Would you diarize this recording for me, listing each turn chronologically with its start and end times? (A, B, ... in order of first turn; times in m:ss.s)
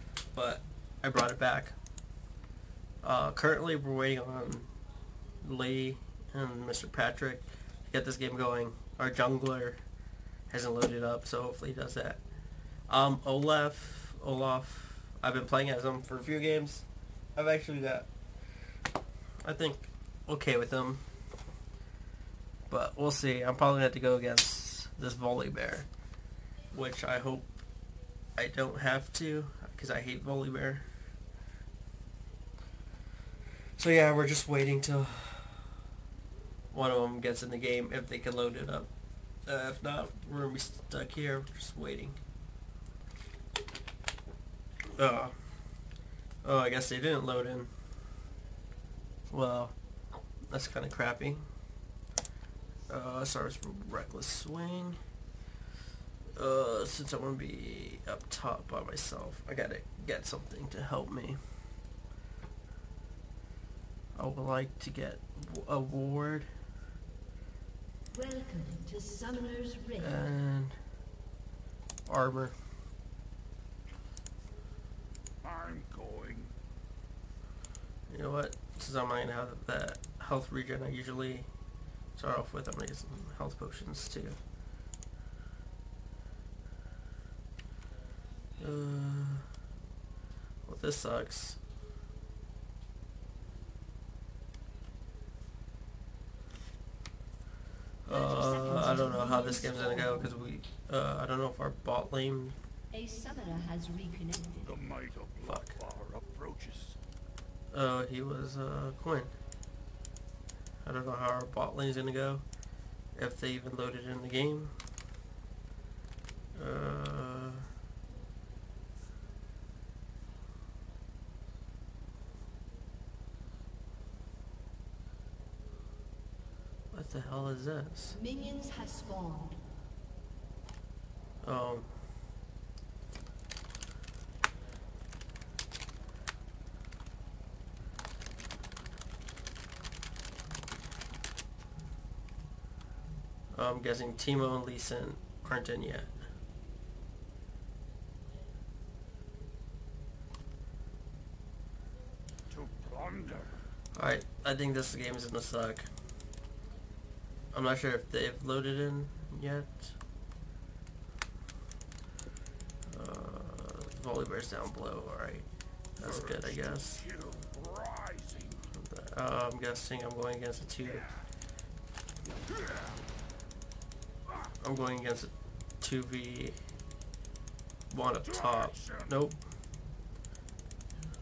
0:00.3-0:01.7 A
0:03.0-0:04.7 A
0:05.4-0:09.8 A
0:10.5-0:12.2 A
0:12.9-0:18.1 A
0:19.4-0:21.0 A
0:22.7-0:25.9 A
0:26.7-0:27.5 A
0:28.4-0:30.8 A
0:33.8-0:35.6 A
0:36.7-0:38.9 A
0:39.4-0:42.2 A
0:45.0-0:45.3 A
0:46.4-0:47.7 A
0:49.3-0:49.7 A
0:50.5-0:51.4 A
0:52.9-0:55.0 A
0:56.4-1:01.4 A
1:04.1-1:06.5 A
1:08.1-1:10.3 B
1:10.0-1:10.8 A
1:12.0-1:12.6 A
1:15.4-1:16.5 C
1:18.1-1:21.5 A
1:22.1-1:24.4 A
1:28.6-1:29.5 A
1:30.6-1:31.6 A
1:38.0-1:42.6 A
1:38.1-1:40.4 B
1:42.9-1:44.7 B
1:44.6-1:47.0 C
1:45.4-1:45.7 A
1:47.7-1:49.3 A
1:50.8-1:52.4 A
1:53.1-1:54.7 A
1:56.5-1:57.7 A
2:06.9-2:08.2 A
2:08.1-2:09.6 B
2:11.4-2:11.9 A
2:23.5-2:26.1 A
2:32.5-2:33.6 C
2:33.9-2:35.9 A
2:37.5-2:40.0 A
2:42.9-2:45.5 A
2:46.0-2:47.0 A
2:46.0-2:48.6 C
2:48.7-2:51.1 A
2:54.6-2:56.6 A
2:57.9-2:59.4 A